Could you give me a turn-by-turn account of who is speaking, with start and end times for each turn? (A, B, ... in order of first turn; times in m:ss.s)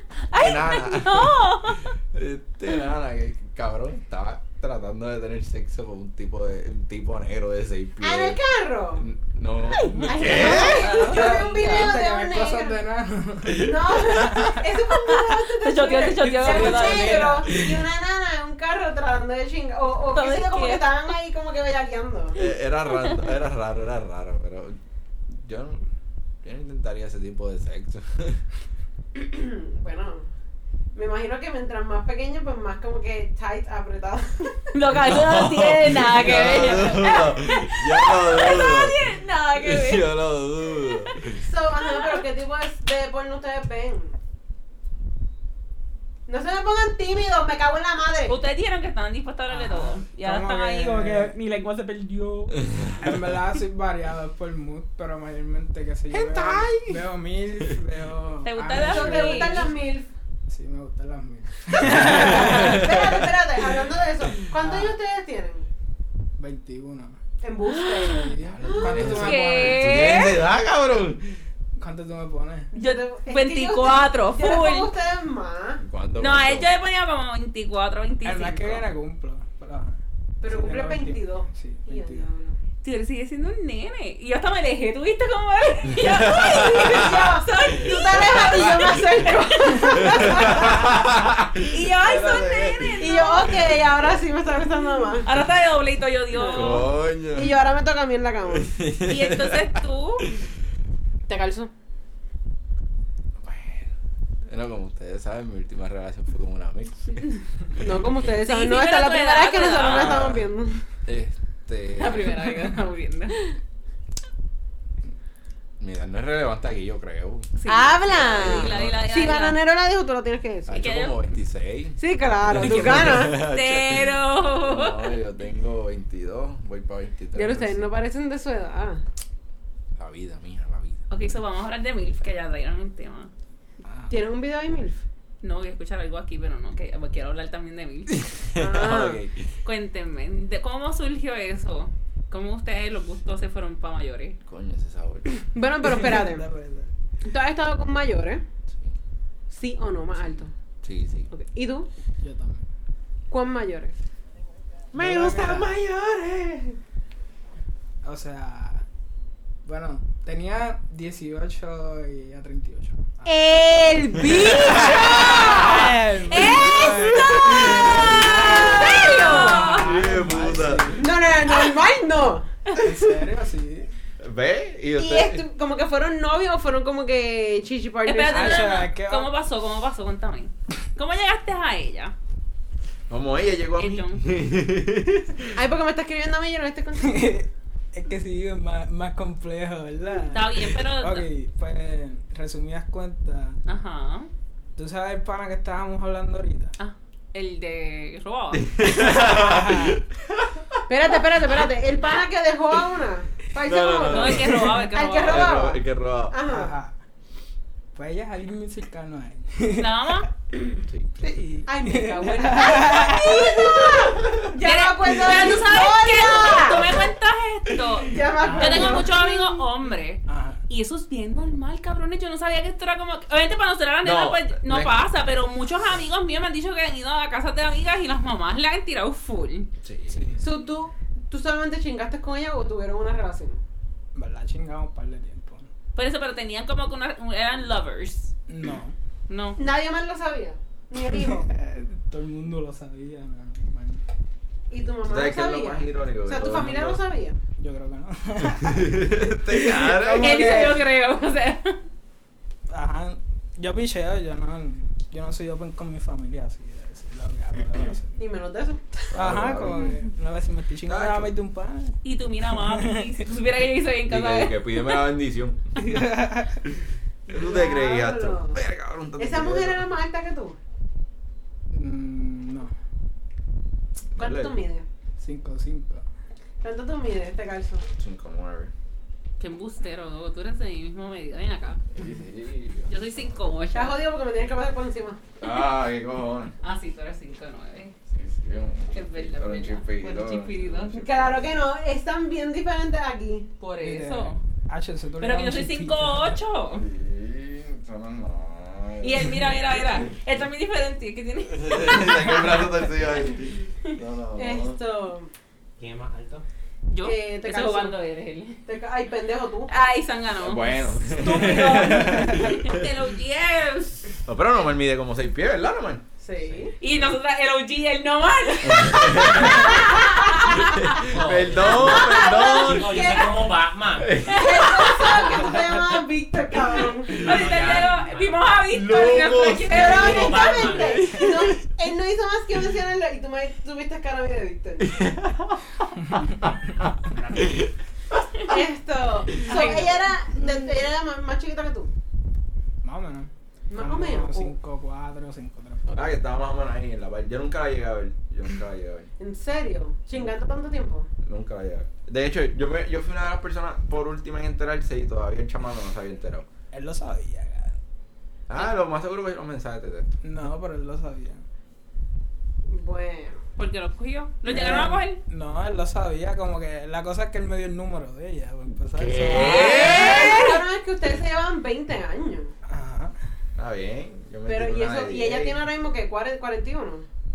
0:00.2-0:01.9 A
0:00.3-0:08.4 B
0:08.0-0:09.0 C
0:09.0-0:11.2 B
0:09.7-0:11.9 A
0:10.1-0:12.8 C
0:10.2-0:14.6 D
0:13.4-0:14.4 B
0:13.6-0:22.4 C
0:15.1-0:17.4 A
0:16.2-0:17.9 D
0:20.1-0:20.9 A
0:22.4-0:24.8 B
0:22.9-0:23.2 A
0:25.3-0:25.8 B
0:26.4-0:28.4 B
0:29.2-0:30.3 C
0:31.0-0:34.7 C
0:34.7-0:40.1 A
0:34.9-0:41.4 B
0:41.4-0:44.2 C
0:41.8-0:42.2 A
0:46.3-0:48.4 C
0:48.3-0:51.3 A
0:49.5-0:59.7 D
0:52.6-0:53.2 B
0:56.1-0:57.0 B
0:58.4-0:59.7 A
0:58.7-1:00.1 C
1:00.5-1:02.9 D
1:01.8-1:03.3 B
1:01.9-1:05.7 C
1:04.4-1:04.9 D
1:06.4-1:07.2 D
1:07.4-1:09.3 C
1:07.7-1:08.1 A
1:08.0-1:10.1 D
1:08.4-1:11.4 B
1:09.1-1:10.4 A
1:11.8-1:12.7 D
1:12.7-1:14.9 A
1:12.7-1:15.8 C
1:15.8-1:16.7 B
1:16.2-1:18.8 A
1:18.2-1:22.3 D
1:20.4-1:22.6 C
1:22.8-1:31.0 A
1:26.0-1:27.2 B
1:26.3-1:30.9 C
1:28.2-1:28.9 B
1:30.0-1:33.8 B
1:31.7-1:33.6 A
1:33.0-1:35.3 C
1:35.2-1:36.9 A
1:36.4-1:38.7 C
1:36.5-1:37.6 B
1:38.5-1:40.4 B
1:39.0-1:40.3 A
1:41.3-1:41.7 C
1:43.4-1:43.9 B
1:44.5-1:47.2 B
1:47.8-1:50.8 C
1:48.4-1:50.4 A
1:49.8-1:50.5 B
1:51.0-1:52.5 B
1:52.0-1:53.4 A
1:55.8-1:57.6 B
1:57.6-1:59.6 A
1:57.7-2:00.9 C
1:58.1-1:59.0 B
2:00.7-2:07.9 B
2:00.8-2:01.2 A
2:02.0-2:03.4 C
2:02.5-2:05.2 A
2:07.4-2:09.0 C
2:10.0-2:11.0 B
2:11.1-2:13.3 A
2:13.8-2:14.1 D
2:14.1-2:15.0 C
2:15.4-2:18.2 A
2:18.1-2:19.5 B
2:18.6-2:19.2 C
2:19.6-2:24.4 A
2:24.5-2:25.3 B
2:25.5-2:26.5 C
2:25.8-2:26.9 D
2:27.2-2:28.4 C
2:29.5-2:30.5 C
2:30.8-2:31.3 B
2:31.3-2:31.9 C
2:32.2-2:32.7 D
2:33.3-2:33.9 C
2:34.9-2:35.8 D
2:35.0-2:36.7 C
2:35.0-2:36.6 B
2:38.0-2:38.8 D
2:39.6-2:43.4 D
2:43.3-2:49.6 C
2:44.2-2:45.9 B
2:44.6-2:51.1 D
2:45.3-2:45.7 A
2:46.3-2:49.9 A
2:46.4-2:51.1 B
2:51.0-2:52.6 C
2:52.8-2:53.9 D
2:54.2-2:55.4 B
2:55.0-2:58.8 C
2:58.0-3:02.1 A
2:58.3-2:59.3 D
3:03.1-3:05.6 B
3:03.8-3:04.2 A
3:05.5-3:07.4 C
3:07.0-3:13.6 D
3:10.3-3:11.3 A
3:13.6-3:14.3 A
3:14.8-3:16.7 D
3:16.8-3:18.8 A
3:18.5-3:20.8 B
3:19.2-3:20.0 D
3:20.9-3:26.7 C
3:23.6-3:26.4 B
3:24.1-3:25.6 A
3:26.5-3:26.9 D
3:28.0-3:30.2 D
3:29.8-3:30.3 A
3:30.9-3:31.2 B
3:31.2-3:34.0 D
3:31.7-3:36.9 C
3:33.5-3:34.5 B
3:34.6-3:49.7 A
3:36.4-3:37.0 B
3:38.1-3:39.6 C
3:38.4-3:38.9 D
3:40.3-3:40.6 D
3:44.0-3:45.1 B
3:49.8-3:50.4 B
3:50.1-3:50.5 D
3:50.4-3:53.6 C
3:54.2-3:55.7 D
3:56.0-3:58.3 A
3:58.5-3:59.0 D
3:59.3-3:59.6 A
3:59.6-4:01.5 C
4:01.0-4:04.0 D
4:04.7-4:07.4 C
4:05.0-4:07.0 B
4:07.6-4:10.8 D
4:08.6-4:10.7 B
4:10.2-4:11.8 A
4:12.7-4:18.2 D
4:18.2-4:19.5 C
4:19.1-4:19.9 B
4:19.1-4:22.0 D
4:19.7-4:20.1 A
4:20.9-4:21.3 B
4:22.0-4:25.0 A
4:22.5-4:23.2 D
4:24.1-4:26.0 B
4:25.8-4:26.6 D
4:26.6-4:29.9 B
4:27.3-4:28.6 C
4:29.2-4:30.6 C
4:31.7-4:32.7 D
4:34.2-4:34.6 B
4:34.2-4:34.9 C
4:35.2-4:36.0 D
4:36.6-4:37.8 C
4:38.0-4:38.7 B
4:39.4-4:41.8 A
4:41.9-4:42.9 B
4:42.9-4:44.0 A
4:43.7-4:45.2 C
4:45.4-4:46.5 B
4:46.6-4:47.9 A
4:48.1-4:51.6 B
4:48.9-4:51.0 A
4:50.9-4:53.5 C
4:53.6-4:54.4 A
4:53.8-4:56.4 D
4:55.2-4:56.8 A
4:56.7-5:00.1 B
4:59.0-5:02.8 A
5:01.5-5:04.8 B
5:04.4-5:05.3 C
5:05.8-5:06.4 E
5:06.9-5:08.6 A
5:07.0-5:08.0 C
5:08.7-5:09.7 C
5:09.7-5:14.2 A
5:10.4-5:12.9 B
5:14.2-5:16.0 B
5:16.2-5:16.8 C
5:16.4-5:16.7 E
5:16.8-5:21.1 A
5:18.6-5:19.9 B
5:20.5-5:23.2 B
5:21.0-5:24.3 E
5:21.4-5:23.4 C
5:24.0-5:25.6 B
5:24.3-5:24.9 A
5:24.3-5:27.2 C
5:27.1-5:28.4 E
5:27.2-5:30.5 A
5:27.3-5:27.9 B
5:28.7-5:31.6 B
5:29.7-5:34.9 C
5:29.7-5:31.2 E
5:34.8-5:38.6 B
5:37.2-5:37.5 E
5:38.4-5:41.9 C
5:39.4-5:40.0 A
5:42.8-5:46.1 D
5:43.7-5:44.5 C
5:45.9-5:49.1 B
5:49.2-5:51.1 C
5:51.2-5:56.5 B
5:56.7-5:57.8 D
5:58.5-6:00.1 B
6:00.2-6:01.4 D
6:02.7-6:03.4 C
6:03.6-6:05.2 A
6:04.5-6:09.9 D
6:08.9-6:10.4 B
6:09.2-6:10.6 A
6:09.3-6:12.5 C
6:12.7-6:13.1 D
6:13.6-6:15.7 B
6:14.5-6:17.1 C